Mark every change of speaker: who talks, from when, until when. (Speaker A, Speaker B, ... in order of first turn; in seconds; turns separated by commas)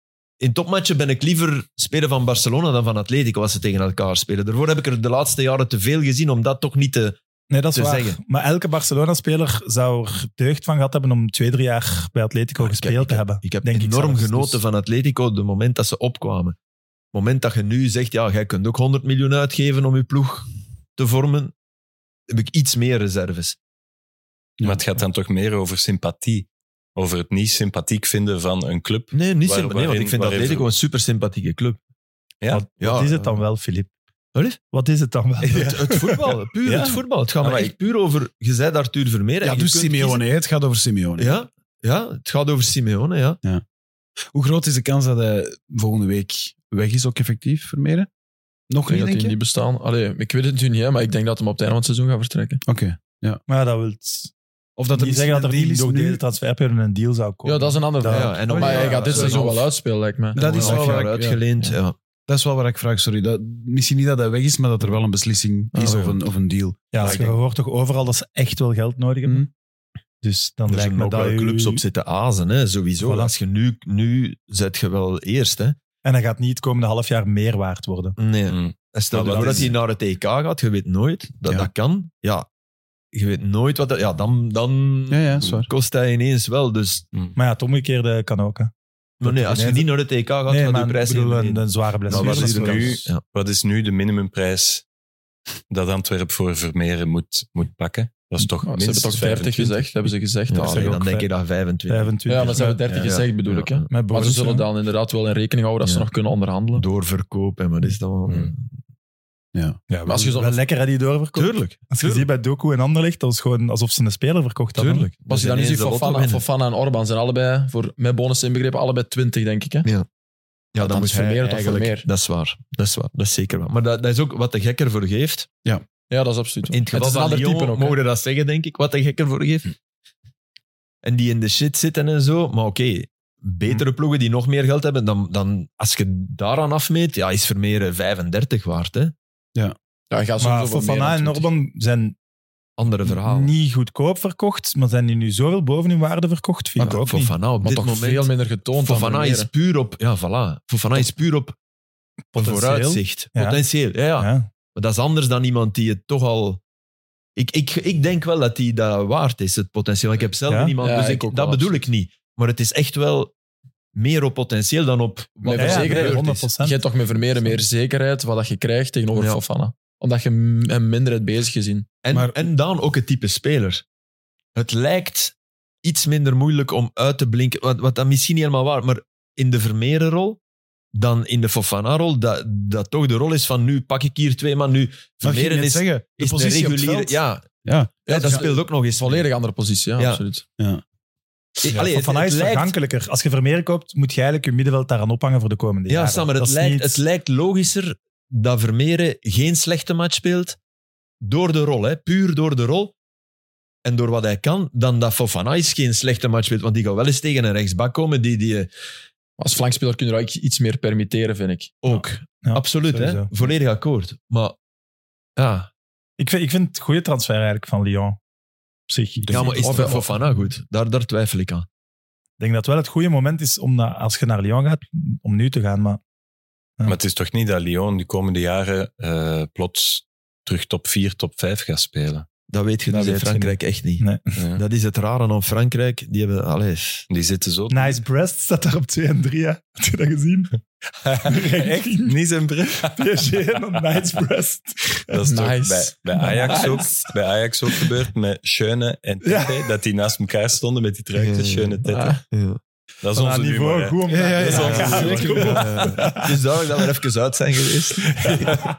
Speaker A: 0.4-7.2, Speaker B: 7.5-14.6, Speaker A: 7.8-8.2, Speaker A: 12.6-16.6, Speaker A: 17.1-21.5, Speaker A: 22.3-23.6, Speaker C: 24.6-30.7, Speaker A: 29.1-31.8, Speaker C: 32.4-32.7, Speaker B: 32.5-33.9, Speaker A: 32.8-33.3, Speaker B: 34.7-36.4, Speaker A: 35.4-40.2, Speaker C: 36.7-37.7, Speaker D: 39.4-41.4, Speaker A: 41.2-43.4, Speaker D: 44.3-48.1, Speaker D: 48.7-49.4, Speaker E: 48.9-52.6, Speaker D: 52.7-53.4, Speaker B: 53.5-54.3, Speaker D: 54.8-56.2, Speaker B: 54.9-58.4, Speaker E: 57.5-60.5, Speaker A: 58.0-59.6, Speaker D: 58.5-59.6, Speaker D: 60.4-61.4, Speaker A: 60.4-62.0, Speaker B: 60.6-60.9, Speaker D: 62.3-67.2, Speaker E: 65.7-66.2, Speaker B: 66.9-69.5, Speaker A: 67.0-67.3, Speaker B: 70.2-71.8, Speaker A: 70.7-75.8, Speaker B: 73.0-73.3, Speaker B: 76.0-78.2, Speaker A: 78.2-82.5, Speaker C: 78.5-79.7, Speaker B: 79.3-79.7, Speaker A: 83.1-87.0, Speaker D: 85.1-85.7, Speaker B: 87.4-88.7, Speaker A: 89.2-93.2, Speaker B: 89.2-89.9, Speaker B: 90.5-93.0, Speaker C: 92.1-94.8, Speaker C: 95.7-100.1, Speaker E: 98.7-100.9, Speaker A: 100.5-103.9, Speaker B: 100.7-101.3, Speaker B: 101.9-103.0, Speaker E: 102.3-106.8, Speaker B: 103.9-104.7, Speaker A: 106.7-108.7, Speaker D: 109.5-109.8, Speaker B: 109.9-115.1, Speaker E: 110.1-110.6, Speaker A: 111.3-112.3, Speaker A: 114.8-116.4, Speaker E: 115.3-119.9, Speaker A: 120.7-125.5, Speaker E: 120.8-122.1, Speaker E: 126.1-128.0, Speaker A: 126.7-129.7, Speaker A: 131.0-139.1, Speaker E: 140.1-141.5, Speaker B: 140.4-142.2, Speaker A: 142.8-143.5, Speaker B: 143.1-147.3, Speaker A: 146.8-151.6, Speaker E: 147.6-149.5, Speaker B: 152.3-153.6, Speaker A: 152.3-156.6, Speaker B: 154.2-154.5, Speaker A: 157.4-163.3, Speaker B: 160.5-160.7, Speaker E: 160.8-161.8, Speaker A: 164.0-166.4, Speaker E: 165.4-171.9, Speaker B: 165.6-166.8, Speaker A: 169.1-169.4, Speaker A: 172.0-173.8, Speaker D: 172.1-172.5, Speaker A: 174.6-180.4, Speaker A: 180.9-187.5, Speaker D: 185.2-187.9, Speaker A: 188.1-189.3, Speaker E: 188.1-190.4, Speaker A: 190.0-190.2, Speaker A: 191.6-192.7, Speaker B: 191.6-197.0, Speaker A: 195.9-200.6, Speaker A: 201.2-202.9, Speaker A: 203.8-208.7, Speaker E: 209.4-211.8, Speaker A: 211.8-214.6, Speaker B: 211.9-213.3, Speaker A: 215.4-215.7, Speaker B: 216.2-218.2, Speaker B: 218.9-219.3, Speaker D: 219.2-220.1, Speaker A: 219.3-221.7, Speaker E: 219.6-220.1, Speaker B: 222.4-226.0, Speaker C: 226.9-232.3, Speaker A: 232.5-234.1, Speaker B: 232.9-234.3, Speaker C: 234.4-234.6, Speaker A: 234.6-237.1, Speaker C: 237.1-238.0, Speaker B: 237.7-240.6, Speaker C: 241.1-243.2, Speaker B: 241.1-242.2, Speaker B: 242.8-245.2, Speaker C: 245.1-252.2, Speaker E: 245.3-246.8, Speaker B: 246.2-247.1, Speaker B: 249.2-249.7, Speaker A: 251.2-252.6, Speaker C: 253.0-255.7, Speaker B: 253.1-256.3, Speaker D: 254.1-255.7, Speaker A: 254.6-258.6, Speaker B: 258.3-258.7